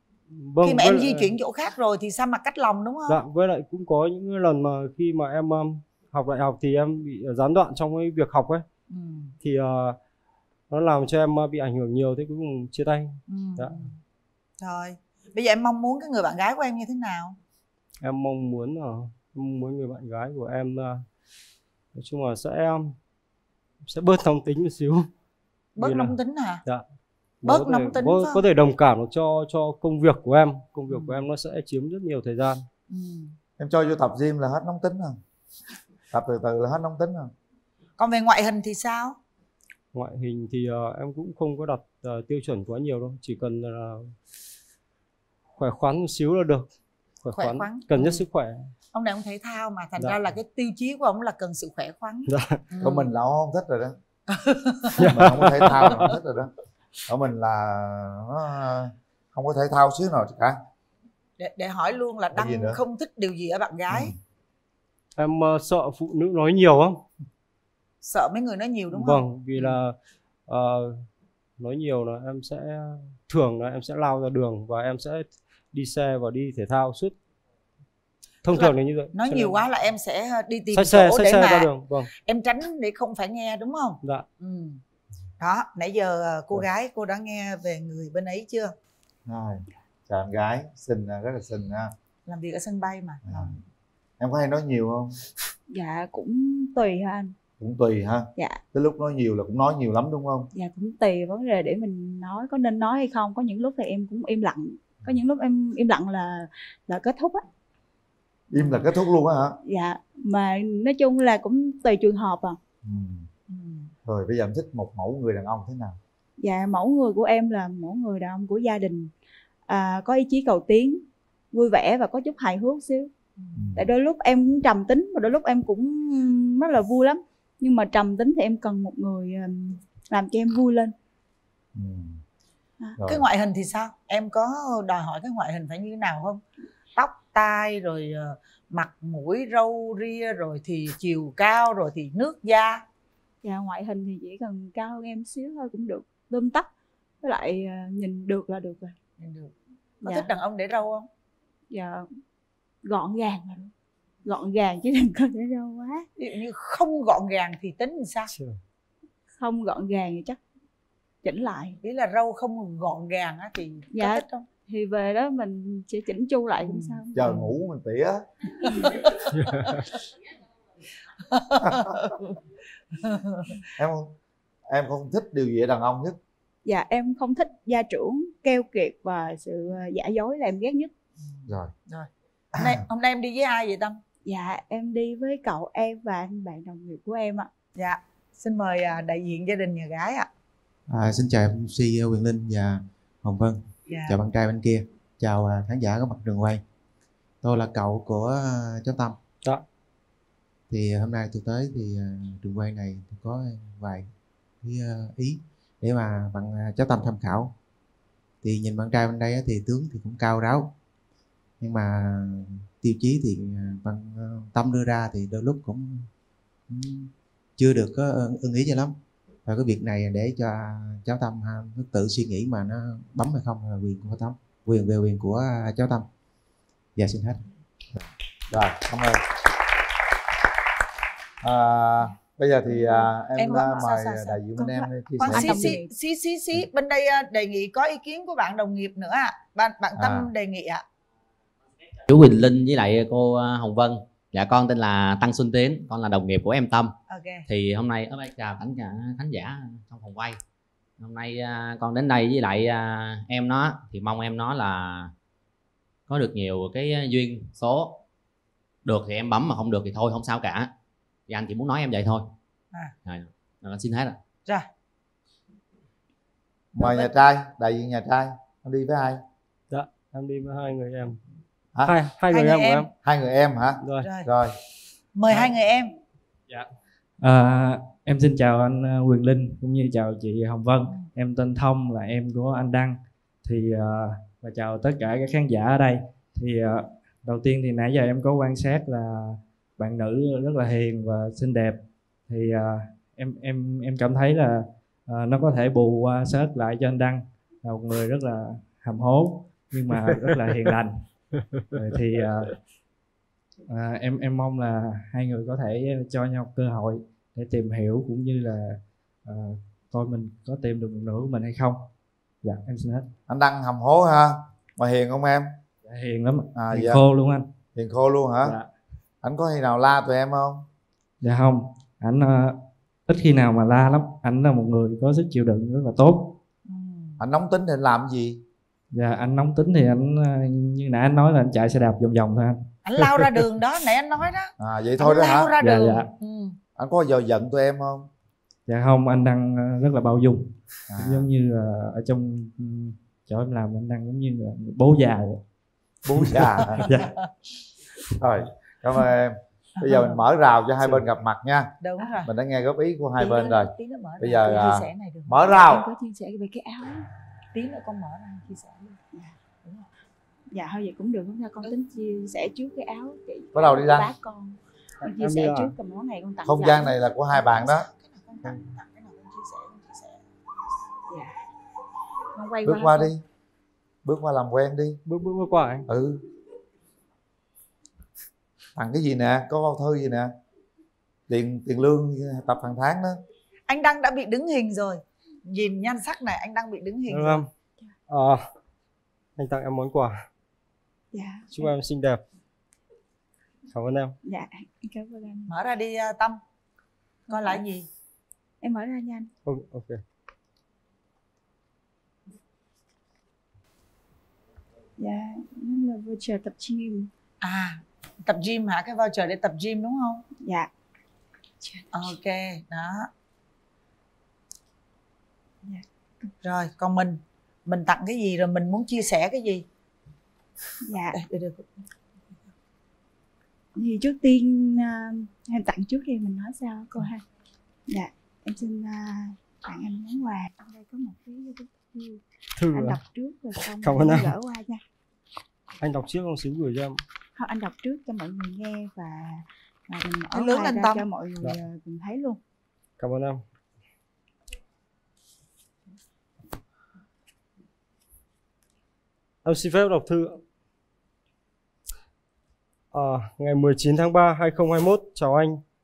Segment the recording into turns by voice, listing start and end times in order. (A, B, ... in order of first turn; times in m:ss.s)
0:00.3-0:01.4 A
0:00.6-0:03.2 B
0:03.1-0:08.6 A
0:08.9-0:09.3 B
0:09.4-0:10.0 A
0:10.7-0:13.8 A
0:13.3-0:14.0 B
0:14.6-0:17.4 B
0:18.0-0:21.0 A
0:22.0-0:23.0 A
0:23.9-0:25.1 A
0:25.8-0:26.6 B
0:25.8-0:26.8 A
0:27.4-0:32.6 A
0:27.4-0:28.4 B
0:30.9-0:31.2 B
0:32.9-0:33.3 B
0:33.6-0:35.2 C
0:36.1-0:37.3 C
0:38.0-0:39.2 B
0:39.9-0:44.1 A
0:45.6-0:46.7 A
0:47.2-0:48.7 A
0:47.4-0:48.2 B
0:48.9-0:53.1 B
0:50.0-0:50.3 A
0:52.3-0:52.6 A
0:52.8-0:54.0 C
0:54.3-0:54.9 B
0:55.0-0:55.9 A
0:55.0-0:56.5 C
0:55.8-0:56.1 B
0:57.1-1:00.6 C
1:01.4-1:04.1 B
1:02.3-1:02.8 C
1:05.2-1:07.0 A
1:08.0-1:09.8 B
1:08.9-1:10.0 A
1:10.5-1:11.0 A
1:11.6-1:17.2 A
1:18.4-1:19.6 A
1:18.5-1:24.8 B
1:20.7-1:22.1 A
1:25.4-1:28.7 B
1:29.3-1:31.9 C
1:32.3-1:33.5 B
1:33.3-1:33.6 C
1:34.2-1:35.2 C
1:35.7-1:37.3 D
1:37.6-1:40.5 C
1:40.6-1:47.4 D
1:48.5-1:49.6 C
1:49.6-1:52.6 D
1:52.8-1:53.3 C
1:53.5-1:53.9 B
1:54.0-1:56.0 C
1:56.4-1:59.1 D
1:59.7-2:03.1 D
2:03.6-2:03.9 C
2:03.8-2:10.9 D
2:11.8-2:12.2 C
2:13.0-2:16.4 B
2:17.0-2:22.8 B
2:23.4-2:26.7 D
2:27.2-2:29.0 D
2:29.2-2:29.5 B
2:30.0-2:31.1 B
2:30.0-2:30.3 D
2:31.7-2:32.1 D
2:32.8-2:33.7 D
2:34.2-2:36.1 D
2:36.2-2:38.3 B
2:38.3-2:38.6 A
2:39.3-2:40.4 D
2:41.2-2:41.8 D
2:41.8-2:44.5 B
2:43.9-2:47.5 D
2:46.7-2:47.0 B
2:47.1-2:48.2 C
2:49.4-2:49.8 A
2:51.3-2:51.8 B
2:51.6-2:52.1 C
2:53.0-2:53.5 B
2:53.8-2:54.1 C
2:54.7-2:56.2 C
2:56.7-3:00.9 D
3:01.5-3:01.7 C
3:02.6-3:04.0 B
3:04.3-3:07.5 D
3:07.8-3:10.3 B
3:10.9-3:16.6 E
3:13.9-3:14.2 B
3:17.4-3:19.2 E
3:20.7-3:24.1 E
3:24.6-3:27.5 E
3:28.4-3:30.7 E
3:31.6-3:36.1 E
3:36.7-3:46.1 E
3:47.0-3:47.4 E
3:48.0-3:49.2 C
3:51.4-3:55.8 C
3:52.7-3:53.8 D
3:53.4-3:54.4 B
3:54.6-3:55.9 D
3:55.2-4:00.8 B
4:00.0-4:00.3 C
4:02.1-4:06.9 F
4:07.1-4:07.4 B
4:07.5-4:10.4 F
4:11.0-4:15.1 F
4:16.1-4:18.0 F
4:18.8-4:20.7 F
4:21.3-4:22.3 F
4:23.1-4:24.2 F
4:26.8-4:29.2 C
4:26.8-4:27.1 B
4:29.7-4:31.2 A
4:31.9-4:32.9 A
4:32.3-4:32.9 B
4:33.0-4:34.6 C
4:33.8-4:34.1 A
4:34.0-4:34.3 B
4:35.2-4:35.9 B
4:37.2-5:01.0 G
5:00.1-5:00.3 A
5:01.8-5:02.6 G
5:03.7-5:11.9 G
5:12.4-5:13.1 G
5:13.3-5:15.5 C
5:15.8-5:17.5 G
5:16.5-5:17.0 C
5:17.8-5:18.6 C
5:18.4-5:18.7 G
5:19.2-5:20.7 C
5:21.2-5:26.4 G
5:26.7-5:27.2 B
5:27.2-5:28.4 C
5:28.9-5:32.7 G
5:32.8-5:36.6 B
5:34.6-5:35.5 C
5:35.6-5:36.1 G
5:36.8-5:38.1 C
5:38.7-5:45.4 G
5:40.9-5:41.3 C
5:46.1-5:47.0 C
5:46.1-5:47.1 G
5:48.2-5:51.7 C
5:49.8-5:50.2 B
5:51.8-5:52.3 B
5:52.2-5:55.9 C
5:53.2-5:55.6 B
5:55.6-5:57.1 D
5:57.5-5:59.0 B
5:59.1-5:59.4 D
6:00.5-6:07.0 D
6:03.5-6:04.1 C
6:05.1-6:05.7 A
6:06.5-6:07.9 C
6:07.4-6:10.2 B
6:11.1-6:11.4 D
6:12.4-6:13.1 D
6:12.6-6:13.2 C
6:14.0-6:15.0 C
6:15.1-6:15.9 A
6:15.9-6:16.2 C
6:18.8-6:20.3 C
6:21.3-6:23.2 C
6:23.7-6:27.4 B
6:27.1-6:27.5 A
6:28.1-6:28.5 A
6:29.4-6:30.3 A
6:31.1-6:31.7 D
6:31.5-6:32.2 A
6:33.7-6:34.2 A
6:34.2-6:35.5 D
6:35.5-6:36.4 B
6:37.3-6:37.6 D
6:37.3-6:37.9 B
6:38.6-6:39.3 D
6:39.4-6:40.0 A
6:45.0-6:47.1 D
6:47.4-6:50.2 B
6:50.4-6:50.7 D
6:51.6-6:52.1 D
6:51.9-6:53.1 B
6:55.6-6:56.3 D
6:56.4-6:59.6 B
7:00.8-7:01.2 D
7:01.1-7:01.7 B
7:03.8-7:07.2 D
7:07.9-7:12.2 D
7:12.6-7:13.0 A
7:12.7-7:14.8 D
7:13.6-7:14.3 A
7:15.8-7:17.0 A
7:17.4-7:22.4 D
7:20.3-7:21.0 B
7:23.0-7:23.4 A
7:29.4-7:30.4 A
7:32.9-7:35.6 A